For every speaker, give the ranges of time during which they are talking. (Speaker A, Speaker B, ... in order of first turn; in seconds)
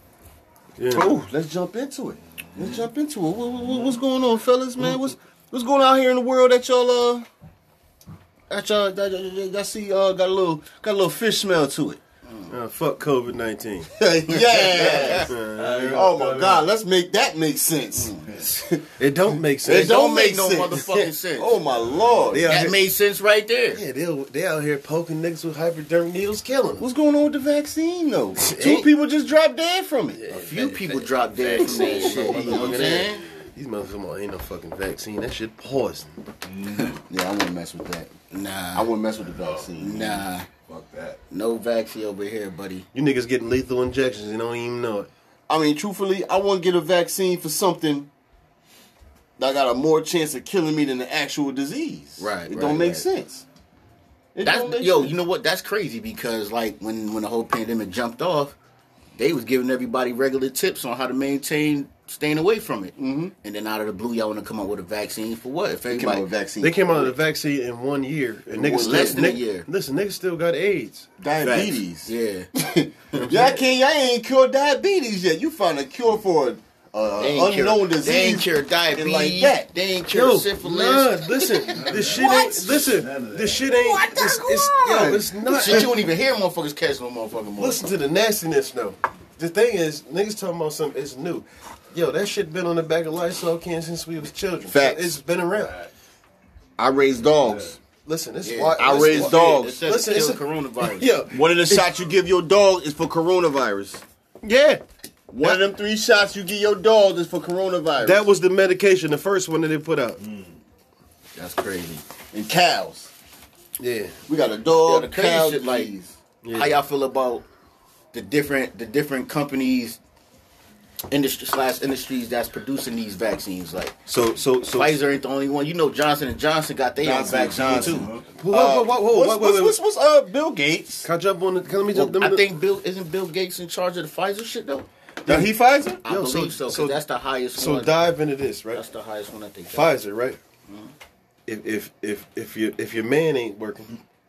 Speaker A: 0.8-1.2, 4.8-5.1, 12.5-13.9, 14.8-16.2, 19.0-20.0, 20.7-21.1, 22.3-22.8, 23.7-26.9, 28.4-28.9, 30.1-36.2, 42.9-45.1, 66.6-71.1, 73.2-73.6, 80.1-86.0, 87.6-95.8, 98.0-102.0, 104.4-104.8, 105.4-105.7, 108.0-110.2, 113.8-114.2, 116.4-116.8, 124.1-125.0, 128.4-129.8, 131.1-132.5, 135.3-137.0, 137.5-138.8, 139.7-140.4, 141.5-143.9
Speaker B: 0.9-7.3, 8.5-12.0, 14.0-15.3, 15.9-18.9, 19.6-20.8, 21.4-22.6, 26.8-30.2, 31.4-33.1, 36.9-38.1, 38.7-40.2, 45.5-48.1, 49.4-53.5, 54.4-55.1, 63.0-63.3, 65.9-67.1, 68.5-69.4, 71.2-79.7, 84.9-85.2, 94.7-95.1, 96.8-97.8, 98.8-99.8, 101.2-104.0, 105.3-108.2, 112.3-113.1, 114.3-116.2, 127.0-131.1, 135.2-136.0
Speaker C: 12.3-12.5, 14.4-15.3, 18.0-18.3, 19.7-21.5, 22.4-23.8, 30.3-33.2, 38.3-38.9, 39.8-40.5, 41.3-42.9, 52.2-53.1, 54.4-58.5, 59.2-66.3, 68.8-69.7, 71.4-72.5, 77.2-82.8, 83.8-87.8, 98.4-101.1, 111.4-112.0, 114.8-115.9, 116.5-117.5, 118.1-120.0, 121.1-124.0, 124.7-128.1, 131.9-134.9, 136.0-137.9, 138.7-139.9, 140.7-140.9
Speaker D: 15.5-16.7, 21.9-22.3, 36.5-37.0, 39.4-41.2, 81.7-83.7, 127.8-128.3